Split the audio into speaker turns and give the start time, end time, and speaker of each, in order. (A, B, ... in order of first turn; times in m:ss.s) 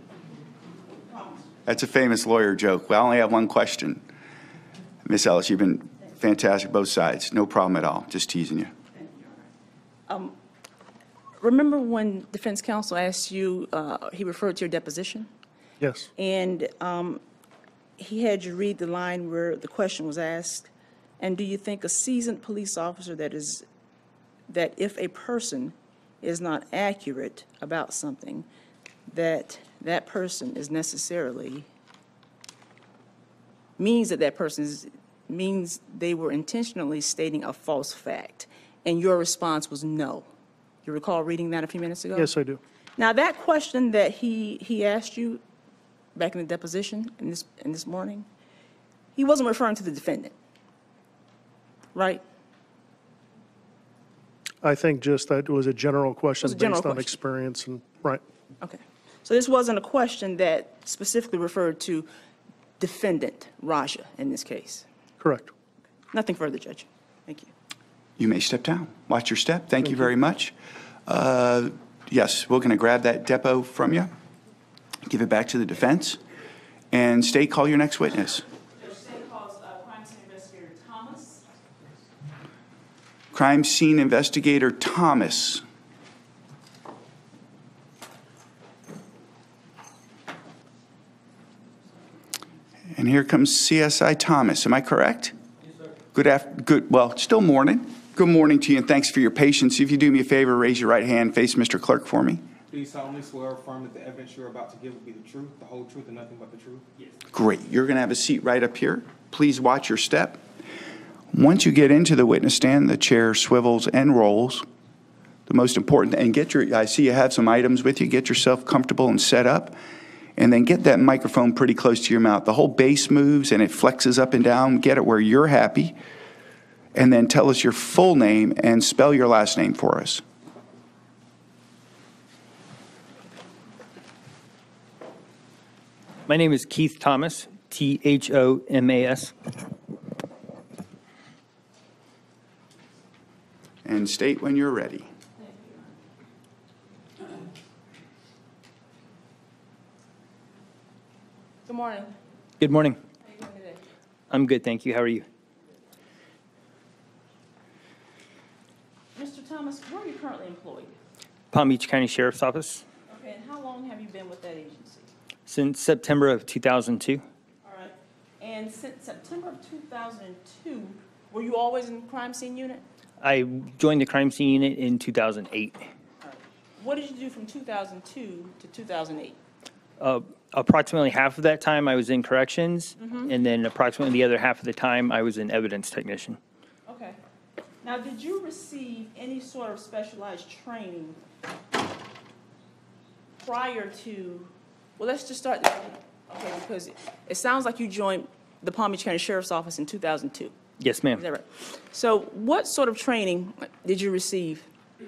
0:01.0-0:01.5 A
0:01.6-0:04.0 B
0:05.0-0:08.7 B
0:08.9-0:09.5 A
0:10.1-0:10.4 A
0:11.4-0:15.3 A
0:15.8-0:16.1 C
0:16.2-0:17.2 A
0:18.0-0:23.6 A
0:24.5-0:28.5 A
0:29.1-0:31.7 A
0:33.8-0:40.3 A
0:40.8-0:42.3 A
0:42.1-0:42.6 C
0:43.0-0:45.4 A
0:46.1-0:48.3 A
0:49.2-0:50.3 A
0:51.9-0:52.2 A
0:54.6-0:58.2 C
0:56.4-0:57.1 A
0:58.6-1:02.1 A
1:02.8-1:04.8 A
1:05.2-1:05.5 C
1:06.1-1:07.5 A
1:08.2-1:10.5 B
1:11.0-1:14.1 B
1:15.0-1:16.2 B
1:16.9-1:18.5 B
1:18.7-1:21.4 A
1:23.3-1:25.6 B
1:32.9-1:35.4 B
1:36.1-1:42.4 B
1:42.7-1:46.9 D
1:47.3-1:50.4 B
1:51.3-1:54.6 B
1:55.5-1:59.8 B
2:00.4-2:06.0 B
2:06.9-2:10.2 B
2:16.3-2:19.3 E
2:23.8-2:25.1 B
2:25.4-2:26.0 A
2:31.6-2:32.1 A
2:32.6-2:33.0 E
2:33.2-2:33.8 A
2:34.3-2:35.2 E
2:39.1-2:41.0 A
2:41.5-2:42.8 E
2:43.1-2:45.1 A
2:45.5-2:47.2 E
2:47.6-2:52.8 A
2:53.2-2:55.9 E
2:56.2-2:59.4 A
3:00.0-3:06.4 E
3:03.0-3:03.3 A
3:06.9-3:07.2 A
3:07.8-3:11.2 A
3:13.4-3:20.5 A
3:20.8-3:21.2 E
3:21.1-3:24.7 A